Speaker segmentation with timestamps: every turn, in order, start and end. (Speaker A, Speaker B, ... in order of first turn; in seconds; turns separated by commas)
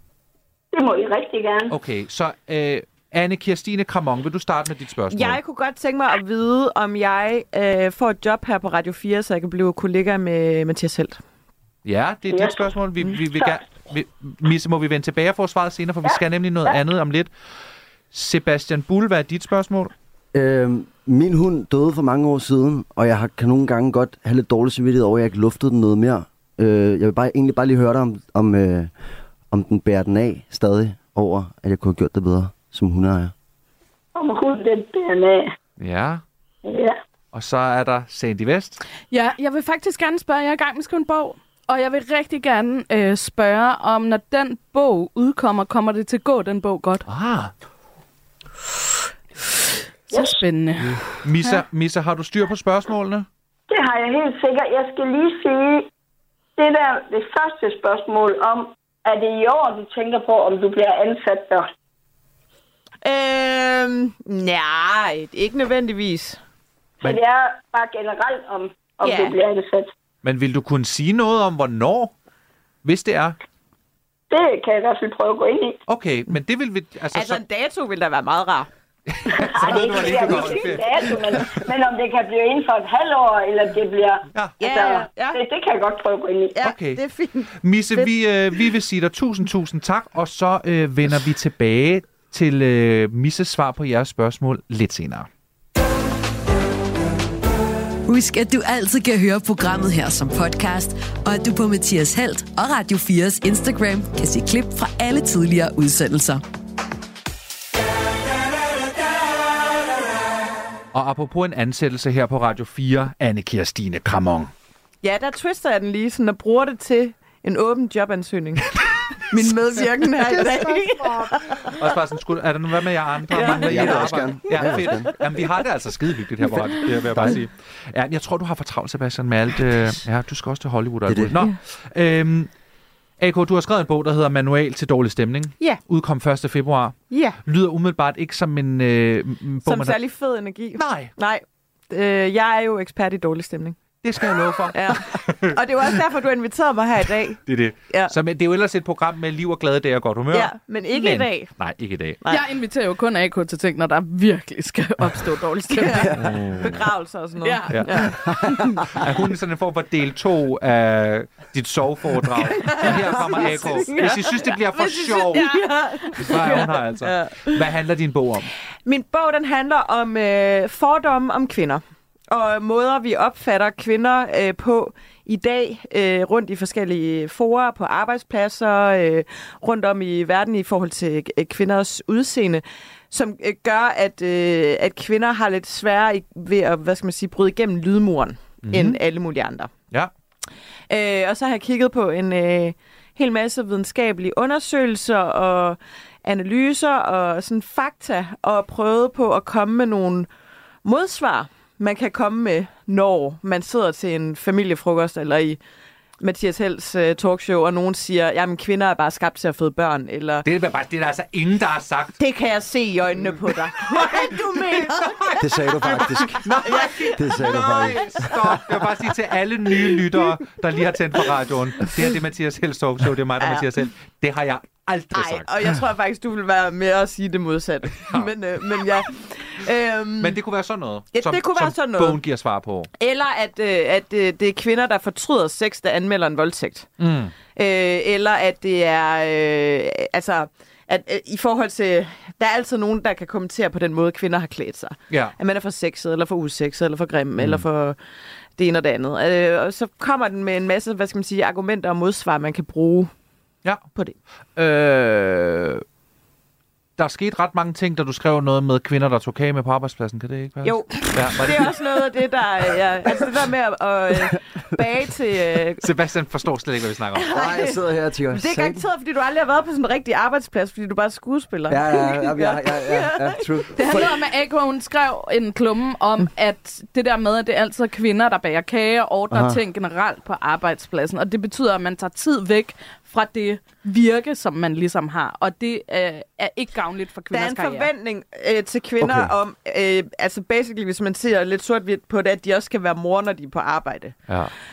Speaker A: 0.7-1.7, Speaker B: 1.7-5.4, Speaker C: 5.1-11.2, Speaker B: 11.8-17.3, Speaker A: 12.3-12.7, Speaker A: 13.3-13.6, Speaker A: 16.0-16.7, Speaker B: 18.1-19.9, Speaker D: 20.3-28.9, Speaker D: 29.5-33.3, Speaker A: 34.1-35.5, Speaker B: 35.8-36.2, Speaker A: 36.6-37.0, Speaker B: 37.3-38.8, Speaker E: 39.1-47.0, Speaker B: 47.1-47.5, Speaker E: 50.1-51.6, Speaker A: 50.1-50.4, Speaker B: 51.2-53.2, Speaker A: 53.7-55.9, Speaker A: 56.6-61.7, Speaker C: 63.0-66.4, Speaker A: 67.0-69.9, Speaker C: 69.0-69.4, Speaker B: 70.2-72.1, Speaker B: 72.8-73.3, Speaker A: 74.3-75.8, Speaker B: 75.9-77.4, Speaker C: 77.1-78.7, Speaker B: 79.1-81.4, Speaker A: 79.3-86.6, Speaker C: 79.6-80.7, Speaker C: 84.6-85.4, Speaker C: 86.5-88.7, Speaker B: 86.6-87.0, Speaker B: 87.6-95.3, Speaker F: 98.1-106.4, Speaker B: 110.9-114.5, Speaker C: 115.0-118.8, Speaker C: 119.3-122.0, Speaker B: 121.8-132.5, Speaker C: 123.3-125.5, Speaker D: 123.4-125.1, Speaker C: 126.5-127.3, Speaker D: 131.1-131.4, Speaker B: 133.2-140.0, Speaker C: 137.1-137.4, Speaker C: 139.6-143.8, Speaker B: 140.8-141.1, Speaker B: 144.0-145.6, Speaker C: 144.7-148.1, Speaker B: 147.4-152.2, Speaker C: 150.3-151.5, Speaker E: 152.3-156.2, Speaker C: 155.6-158.2, Speaker B: 156.3-156.7, Speaker E: 157.4-158.0, Speaker B: 158.9-165.6, Speaker C: 162.4-167.7, Speaker E: 163.4-163.7, Speaker B: 166.2-168.5, Speaker C: 168.8-189.7, Speaker B: 188.6-189.0, Speaker C: 190.9-200.3, Speaker C: 200.8-205.6, Speaker C: 206.2-210.5, Speaker B: 210.4-212.2, Speaker C: 212.2-218.8, Speaker B: 213.8-225.5, Speaker D: 215.4-216.6, Speaker D: 217.1-218.2, Speaker C: 219.8-220.3, Speaker C: 223.4-223.8, Speaker C: 225.1-230.4, Speaker B: 230.2-232.9, Speaker C: 231.1-232.2, Speaker C: 232.9-236.9, Speaker B: 237.0-237.3, Speaker C: 237.5-248.0, Speaker C: 248.6-253.1, Speaker B: 254.6-255.8, Speaker B: 257.0-261.8, Speaker C: 260.6-265.9, Speaker B: 265.8-267.3, Speaker C: 267.1-274.0, Speaker D: 267.3-268.8, Speaker D: 271.7-274.2, Speaker E: 273.7-287.9, Speaker D: 279.3-279.6, Speaker C: 287.3-294.2, Speaker D: 289.0-289.3